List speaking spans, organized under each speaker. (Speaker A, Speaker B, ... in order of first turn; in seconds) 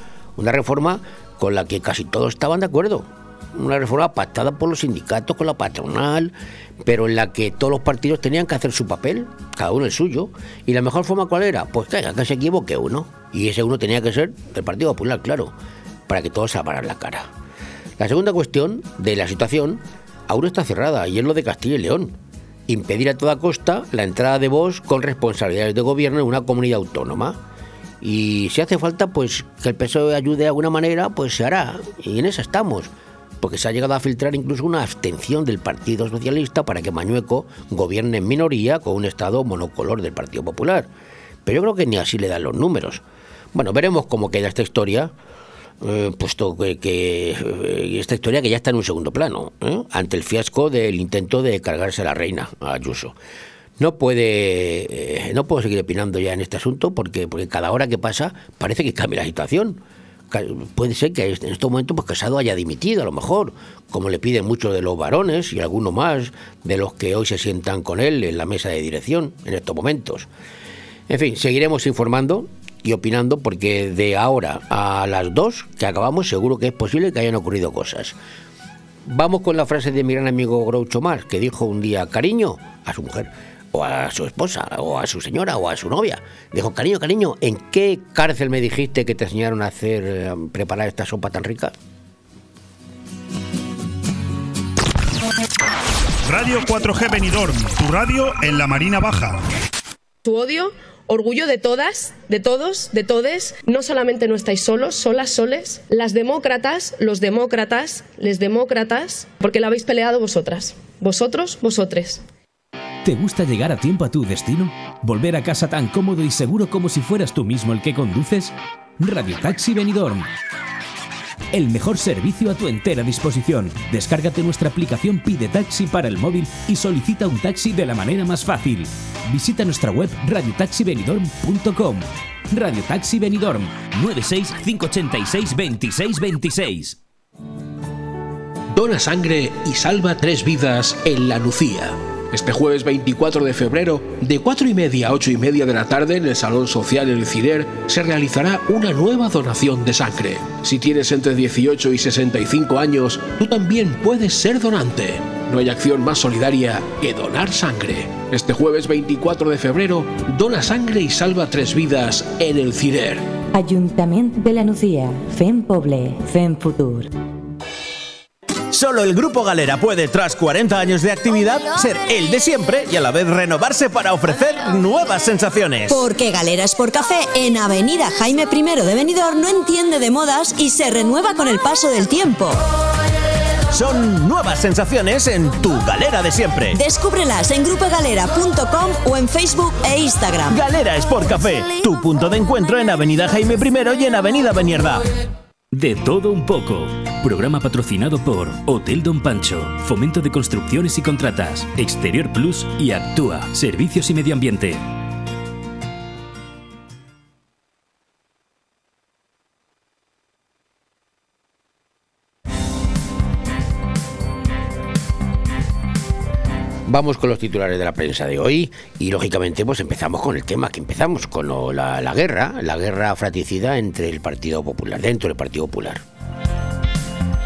Speaker A: 0.4-15.5, 16.1-17.3, 18.0-22.1, 22.7-27.4, 28.0-40.9, 41.5-43.0, 43.5-45.1, 45.8-53.1, 53.8-70.3, 71.1-78.2, 79.0-91.7, 216.9-226.0
Speaker B: 96.2-99.4
Speaker C: 100.2-112.2
Speaker D: 113.0-120.3, 121.5-137.0, 195.7-204.8
Speaker E: 138.7-163.3
Speaker F: 163.5-167.1
Speaker G: 168.7-176.1, 183.7-186.8, 190.5-195.1
Speaker H: 175.9-182.6, 186.8-190.5